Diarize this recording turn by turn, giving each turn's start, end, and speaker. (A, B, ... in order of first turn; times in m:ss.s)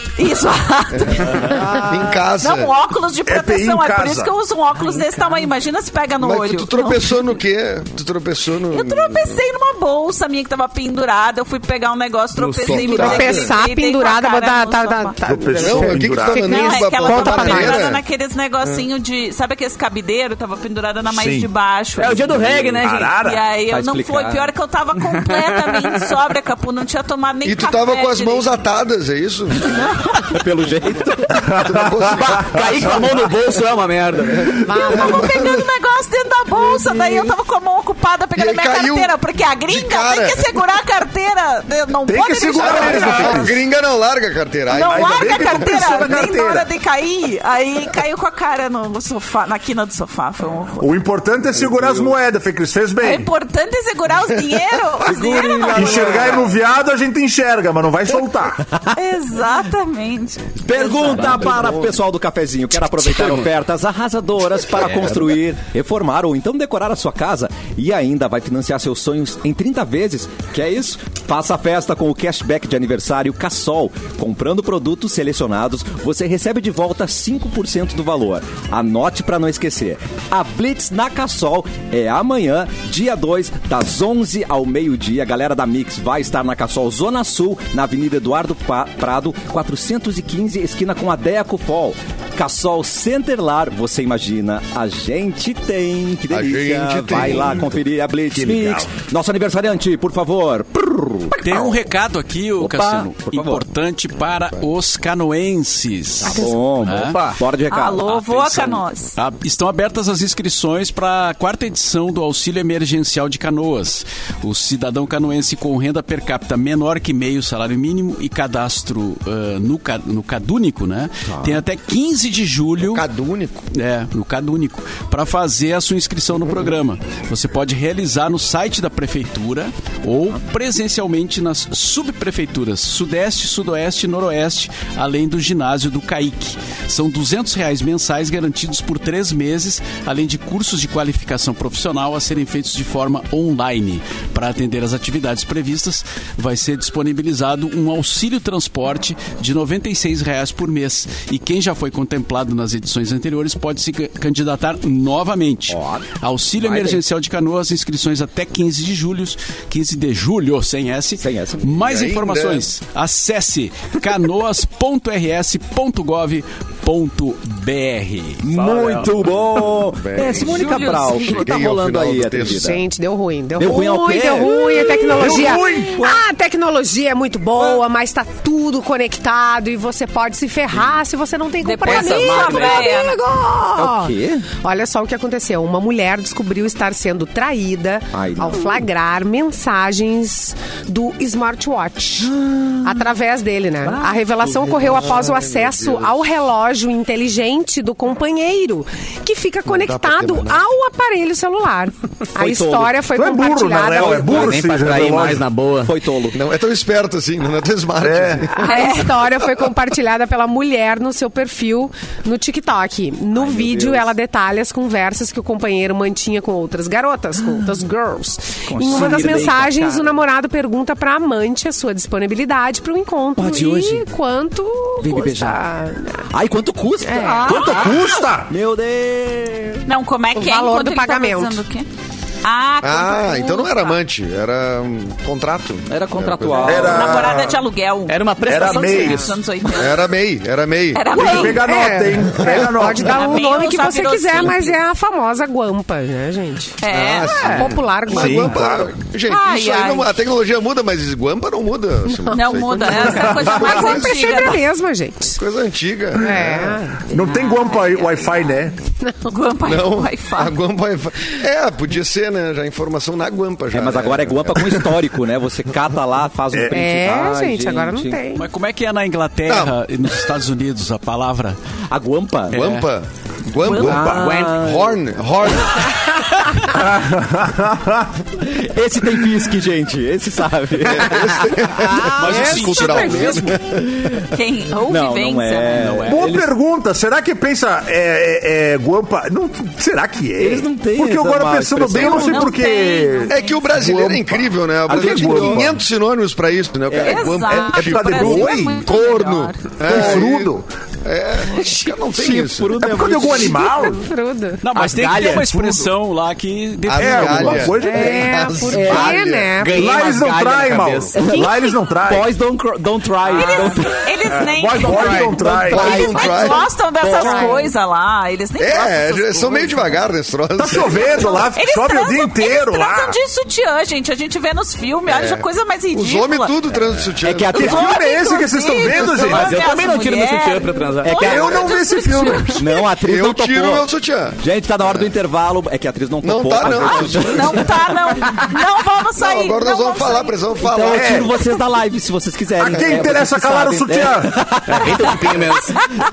0:00.2-0:07.2 A
0:00.9-0:02.7 B
0:01.4-0:02.1 C
0:03.2-0:04.3 D
0:04.8-0:05.2 C
0:06.2-0:09.4 B
0:08.7-0:15.2 A
0:12.4-0:13.2 E
0:12.6-0:13.6 B
0:12.7-0:17.9 C
0:15.2-0:16.4 D
0:15.6-0:18.0 B
0:16.4-0:22.3 A
0:21.0-0:21.5 D
0:22.0-0:23.2 E
0:22.3-0:23.4 D
0:23.2-0:28.5 A
0:23.7-0:24.5 F
0:25.0-0:26.1 E
0:27.4-0:29.8 B
0:29.6-0:30.4 A
0:30.2-0:31.4 F
0:31.4-0:32.5 D
0:31.5-0:33.0 B
0:32.2-0:34.6 E
0:34.4-0:35.6 B
0:34.6-0:35.6 C
0:34.7-0:43.6 A
0:36.6-0:37.3 C
0:38.3-0:39.1 B
0:39.7-0:40.5 B
0:42.1-0:43.6 D
0:42.6-0:45.8 B
0:44.7-0:50.9 A
0:44.8-0:46.7 D
0:50.8-0:53.3 D
0:53.0-0:56.4 A
0:54.5-0:55.6 B
0:55.0-0:56.5 F
0:55.6-0:58.6 D
0:58.9-1:01.4 A
1:00.6-1:41.8 F
1:01.0-1:01.8 E
1:04.9-1:05.3 E
1:36.3-1:37.6 B
1:38.3-1:38.9 D
1:41.4-1:47.2 G
1:42.6-1:43.6 F
1:46.2-1:48.0 F
1:47.0-1:47.4 E
1:47.7-1:49.2 A
1:48.0-2:03.0 G
2:01.3-2:01.6 F
2:02.8-2:03.6 B
2:03.7-2:48.4 G
2:35.7-2:37.0 F
2:41.2-2:41.8 F
2:41.8-2:42.6 B
2:48.4-2:52.8 F
2:48.5-2:49.5 E
2:49.9-2:52.8 B
2:50.3-2:51.6 A
2:52.6-3:24.4 C
2:53.6-2:56.2 F
2:55.1-2:56.0 D
3:01.6-3:03.2 A
3:01.8-3:03.0 E
3:03.7-3:04.5 F
3:08.1-3:08.8 F
3:12.2-3:13.1 F
3:13.8-3:15.3 F
3:14.8-3:16.2 B
3:19.7-3:20.6 B
3:22.4-3:23.0 F
3:23.1-3:25.4 D
3:24.0-3:26.4 F
3:24.2-3:25.9 E
3:26.3-3:28.7 B
3:28.0-3:28.4 D
3:28.4-3:46.3 C
3:28.6-3:29.2 A
3:33.3-3:34.1 F
3:38.7-3:40.2 F
3:43.4-3:44.1 F
3:45.0-3:45.6 F
3:46.3-3:49.8 F
3:47.0-3:47.7 C
3:47.4-3:48.5 D
3:49.8-3:51.9 A
3:50.3-3:51.6 C
3:52.4-3:54.0 A
3:52.8-3:57.2 B
3:55.9-3:57.1 F
3:56.6-3:57.6 D
3:56.8-4:00.0 A
3:58.1-3:59.3 E
3:58.4-3:59.2 D
3:59.7-4:01.4 B
4:00.9-4:01.6 A
4:01.1-4:03.4 D
4:01.5-4:06.8 C
4:02.3-4:02.7 B
4:03.0-4:04.8 A
4:06.8-4:07.7 A
4:06.9-4:14.4 B
4:07.4-4:08.5 C
4:08.1-4:08.9 D
4:09.2-4:10.1 A
4:12.1-4:15.4 C
4:12.3-4:14.6 A
4:13.1-4:13.6 D
4:15.4-4:16.8 B
4:16.2-4:17.0 C
4:17.1-4:18.8 D
4:17.1-4:18.5 A
4:19.3-4:20.5 A
4:19.6-4:24.9 B
4:23.7-4:28.2 F
4:26.7-4:28.5 C
4:28.4-4:31.6 G
4:29.5-4:29.7 B
4:31.9-4:32.6 F
4:32.5-4:32.8 G
4:32.5-4:36.0 B
4:33.6-4:34.1 A
4:33.7-4:35.0 F
4:33.8-4:34.2 D
4:34.2-4:34.6 E
4:36.7-4:38.1 D
4:38.4-4:41.7 F
4:40.9-4:44.1 B
4:41.8-4:43.5 C
4:42.1-4:43.6 G
4:43.8-4:44.2 F
4:44.3-4:46.0 A
4:44.8-4:46.3 F
4:45.7-4:46.4 G
4:46.1-4:55.8 D
4:50.4-4:52.6 F
4:52.0-4:53.7 A
4:53.3-5:03.0 B
4:54.9-4:55.8 F
4:57.0-4:59.8 A
4:57.1-4:58.9 D
4:59.8-5:00.6 D
5:01.5-5:03.6 F
5:02.8-5:04.0 D
5:03.3-5:04.6 C
5:04.6-5:07.7 G
5:04.7-5:05.6 E
5:05.5-5:05.8 D
5:06.9-5:09.6 B
5:07.0-5:08.6 D
5:07.7-5:09.8 C
5:08.7-5:11.4 E
5:09.7-5:12.3 D
5:11.1-5:14.1 F
5:13.3-5:20.0 A
5:13.4-5:13.7 E
5:14.4-5:16.0 D
5:14.9-5:15.4 E
5:15.4-5:16.7 B
5:15.6-5:16.3 F
5:17.0-5:17.5 F
5:17.0-5:17.7 C
5:18.6-5:21.4 B
5:20.6-5:23.2 D
5:21.2-5:26.5 A
5:25.1-5:27.8 B
5:27.2-5:28.0 F
5:27.5-5:29.6 D
5:27.6-5:32.8 A
5:29.2-5:31.2 E
5:31.0-5:31.6 F
5:31.2-5:32.6 D
5:31.3-5:31.6 B
5:32.5-5:33.9 F
5:33.0-5:35.1 B
5:34.4-5:38.3 F
5:36.2-5:37.7 B
5:36.7-5:40.4 A
5:39.2-5:41.3 B
5:40.6-5:45.4 F
5:40.9-5:41.3 D
5:42.6-5:44.3 D
5:42.7-5:43.1 B
5:44.7-5:45.8 E